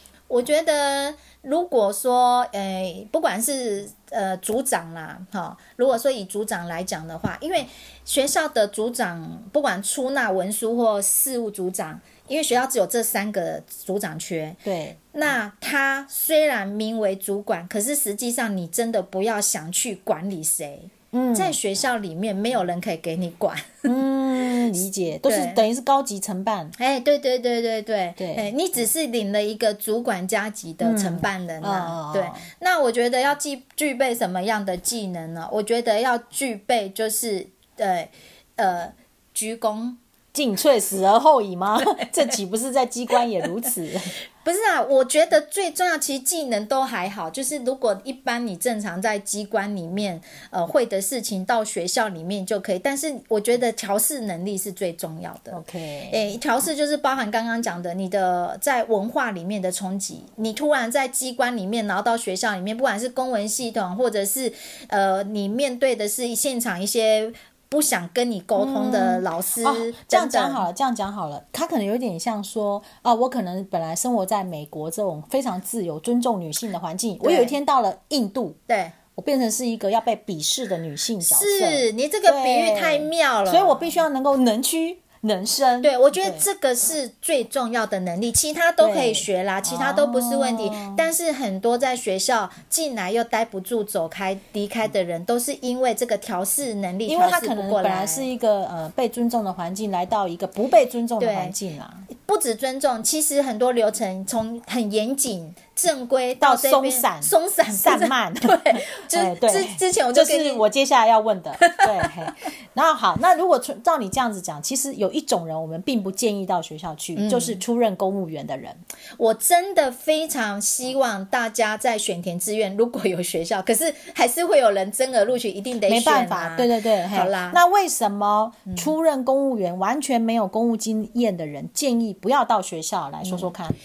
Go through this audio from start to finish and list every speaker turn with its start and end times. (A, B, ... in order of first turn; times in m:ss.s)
0:00.3-0:14.6 A
0:14.6-0:15.0 B
0:15.1-0:23.8 A
0:21.1-0:21.6 B
0:23.8-0:26.7 B
0:25.2-0:25.6 A
0:26.8-0:40.0 A
0:28.2-0:28.4 B
0:30.8-0:32.4 B
0:40.3-0:44.1 B
0:44.4-1:10.6 A
0:55.5-0:56.2 B
1:08.6-1:18.6 B
1:17.2-1:17.5 A
1:18.7-1:18.9 A
1:19.1-1:26.4 B
1:21.2-1:23.8 A
1:25.8-1:38.3 A
1:28.8-1:31.0 B
1:37.1-1:42.0 B
1:41.2-1:41.5 A
1:42.1-1:50.6 A
1:46.4-1:58.8 B
1:51.6-1:52.1 A
1:57.2-1:57.6 A
1:59.2-2:07.6 A
2:05.9-2:13.8 B
2:08.6-2:08.9 A
2:13.2-2:13.5 A